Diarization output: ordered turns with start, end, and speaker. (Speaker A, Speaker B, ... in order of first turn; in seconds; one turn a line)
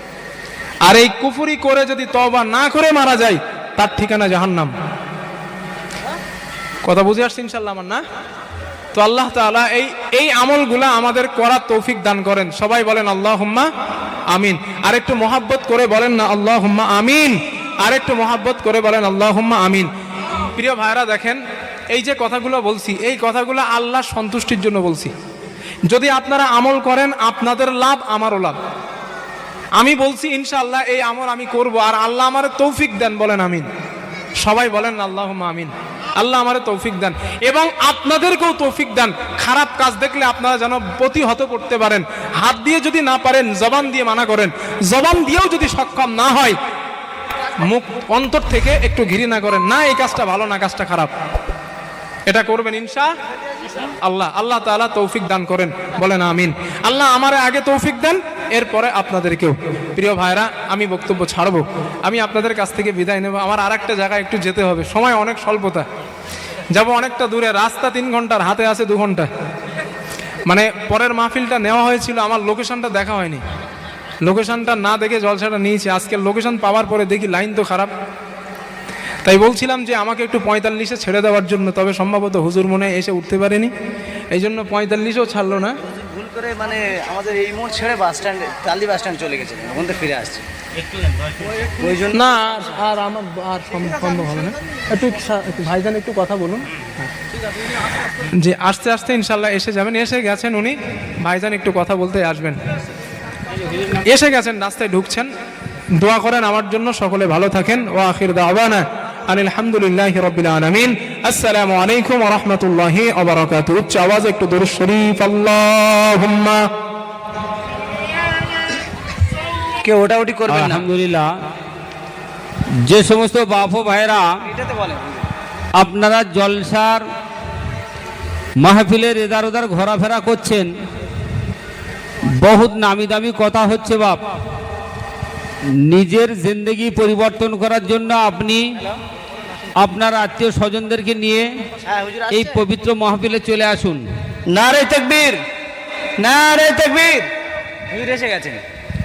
Speaker A: 0.8-4.7
Speaker A: 6.8-8.0
Speaker A: 8.9-13.7
Speaker A: 14.3-19.9
Speaker A: 20.5-21.4
Speaker A: 21.9-25.1
Speaker A: 25.9-28.6
Speaker A: 29.8-33.7
Speaker A: 34.4-46.6
Speaker A: 47.6-51.1
Speaker A: 52.3-53.1
Speaker A: 54.0-65.8
Speaker A: 66.7-69.3
Speaker A: 70.5-73.4
Speaker A: 74.2-77.9
Speaker A: 79.2-83.7
Speaker A: 84.3-85.8
Speaker B: 85.8-90.4
Speaker B: 91.8-92.2
Speaker A: 92.1-96.7
Speaker A: 98.2-102.6
Speaker A: 103.9-105.3
Speaker A: 106.0-116.7
Speaker B: 119.8-120.9
Speaker C: 120.5-121.3
Speaker C: 122.8-124.3
Speaker B: 124.5-125.3
Speaker C: 125.8-127.0
Speaker C: 128.6-130.7
Speaker C: 132.4-134.2
Speaker C: 135.9-138.7
Speaker C: 139.8-141.5
Speaker B: 141.8-142.6
Speaker C: 142.3-144.1
Speaker B: 144.5-145.4
Speaker B: 146.2-147.3
Speaker B: 147.9-148.6